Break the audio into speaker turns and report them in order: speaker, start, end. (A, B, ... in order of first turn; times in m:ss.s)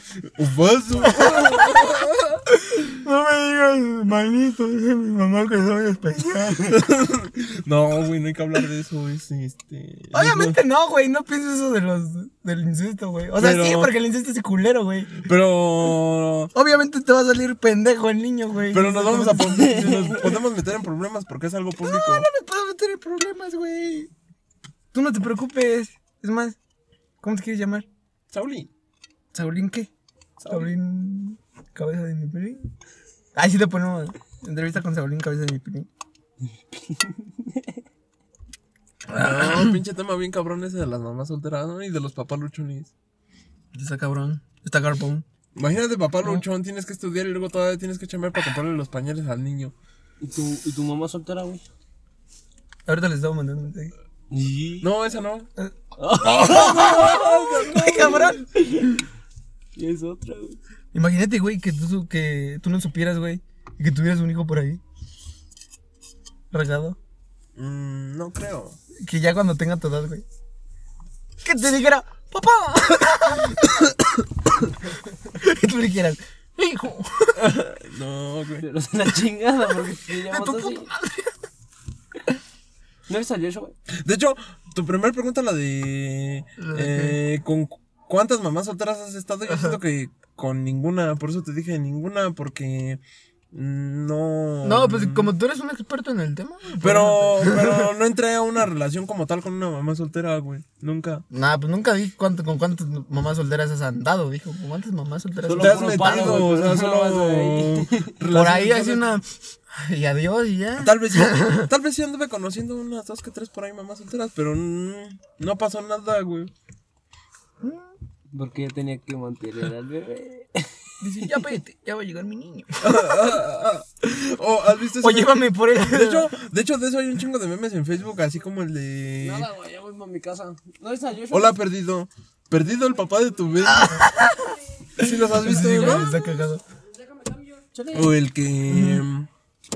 0:00.2-0:02.4 A
0:01.0-0:01.8 B
0:02.5-0:06.8 B
0:06.7-0:10.6 A
0:10.1-0:15.2 B
0:13.4-0:13.9 A
0:15.2-0:16.5 A
0:16.5-0:20.0 B
0:18.7-0:22.3 A
0:19.7-0:20.2 C
0:21.8-0:24.1 B
0:24.9-0:26.6 B
0:27.2-0:27.8 B
0:28.3-0:28.7 A
0:29.3-0:29.9 B
0:30.4-0:30.7 A
0:30.5-0:32.7 B
0:33.3-0:35.9 B
0:36.7-0:37.8 C
0:39.1-0:39.8 B
0:39.2-0:42.9 A
0:43.7-0:45.2 B
0:45.5-0:49.7 A
0:50.2-0:51.6 C
0:52.9-0:53.9 B
0:54.3-0:54.9 C
0:54.8-0:55.5 A
0:55.6-0:59.0 B
0:56.0-0:59.0 C
0:56.6-0:58.1 A
0:59.8-1:00.6 C
1:00.9-1:04.8 B
1:06.5-1:07.0 B
1:07.6-1:08.8 A
1:09.0-1:10.2 B
1:11.4-1:13.9 B
1:15.3-1:17.4 B
1:17.4-1:18.6 A
1:18.6-1:20.9 C
1:20.3-1:21.3 B
1:23.1-1:23.8 C
1:23.9-1:33.0 A
1:26.6-1:27.2 B
1:29.5-1:29.8 B
1:33.5-1:35.3 A
1:34.6-1:37.9 B
1:36.8-1:41.2 A
1:41.3-1:46.5 B
1:45.4-1:48.1 C
1:45.6-1:49.1 A
1:48.3-1:51.7 B
1:50.8-1:56.5 A
1:57.6-1:57.9 B
1:58.3-2:00.7 C
2:01.0-2:03.4 B
2:02.8-2:09.5 A
2:05.0-2:06.3 B
2:09.2-2:11.5 C
2:11.3-2:14.1 A
2:13.6-2:16.6 B
2:15.0-2:16.1 A
2:15.6-2:16.3 C
2:17.3-2:18.1 C
2:17.9-2:19.3 A
2:18.7-2:19.0 B